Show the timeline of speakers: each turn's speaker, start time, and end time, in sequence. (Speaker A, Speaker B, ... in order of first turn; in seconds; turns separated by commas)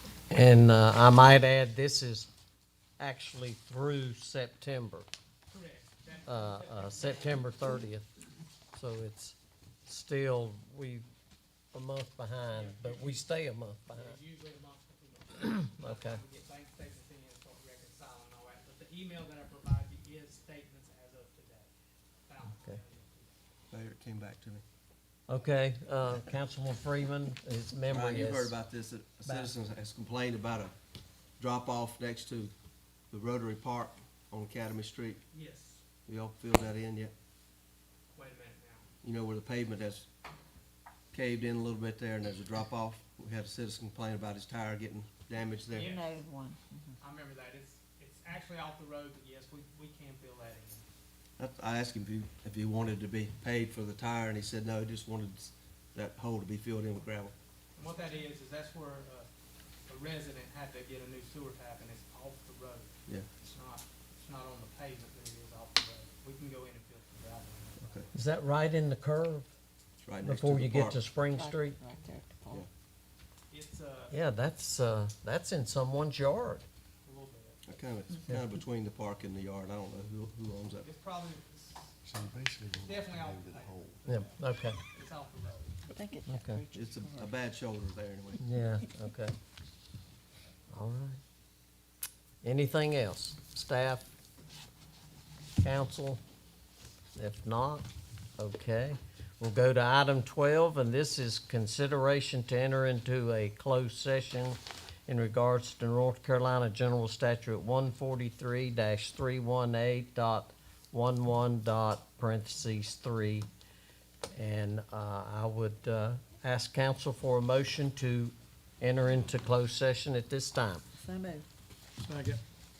Speaker A: 0.3-2.3, Speaker A: 3.0-5.1, Speaker B: 5.5-7.4, Speaker A: 6.2-8.1, Speaker A: 8.7-11.1, Speaker A: 11.7-14.2, Speaker B: 12.5-13.2, Speaker B: 13.9-21.7, Speaker A: 15.8-16.2, Speaker B: 22.3-23.4, Speaker C: 23.7-24.6, Speaker A: 25.3-28.5, Speaker C: 27.9-30.7, Speaker C: 31.4-32.5, Speaker C: 33.1-35.2, Speaker B: 35.3-35.8, Speaker C: 36.1-37.1, Speaker B: 38.1-38.9, Speaker C: 39.0-40.1, Speaker C: 41.1-46.0, Speaker B: 45.7-46.1, Speaker D: 45.8-47.0, Speaker B: 47.0-50.9, Speaker C: 51.4-57.3, Speaker B: 57.8-59.3, Speaker B: 59.9-68.1, Speaker A: 68.1-69.5, Speaker C: 70.0-71.0, Speaker A: 70.2-71.8, Speaker D: 71.3-72.7, Speaker B: 73.5-74.2, Speaker A: 74.1-76.7, Speaker B: 77.1-77.6, Speaker C: 77.7-80.9, Speaker B: 80.8-82.0, Speaker E: 82.0-84.0, Speaker B: 82.8-85.9, Speaker A: 84.1-84.8, Speaker D: 85.9-87.3, Speaker A: 86.3-86.6, Speaker C: 86.7-88.5, Speaker A: 88.4-89.3, Speaker A: 90.7-91.2, Speaker A: 92.4-94.1, Speaker A: 95.6-96.2, Speaker A: 97.2-97.8, Speaker A: 98.4-113.5, Speaker A: 114.3-120.8, Speaker D: 121.0-121.5, Speaker B: 122.0-122.4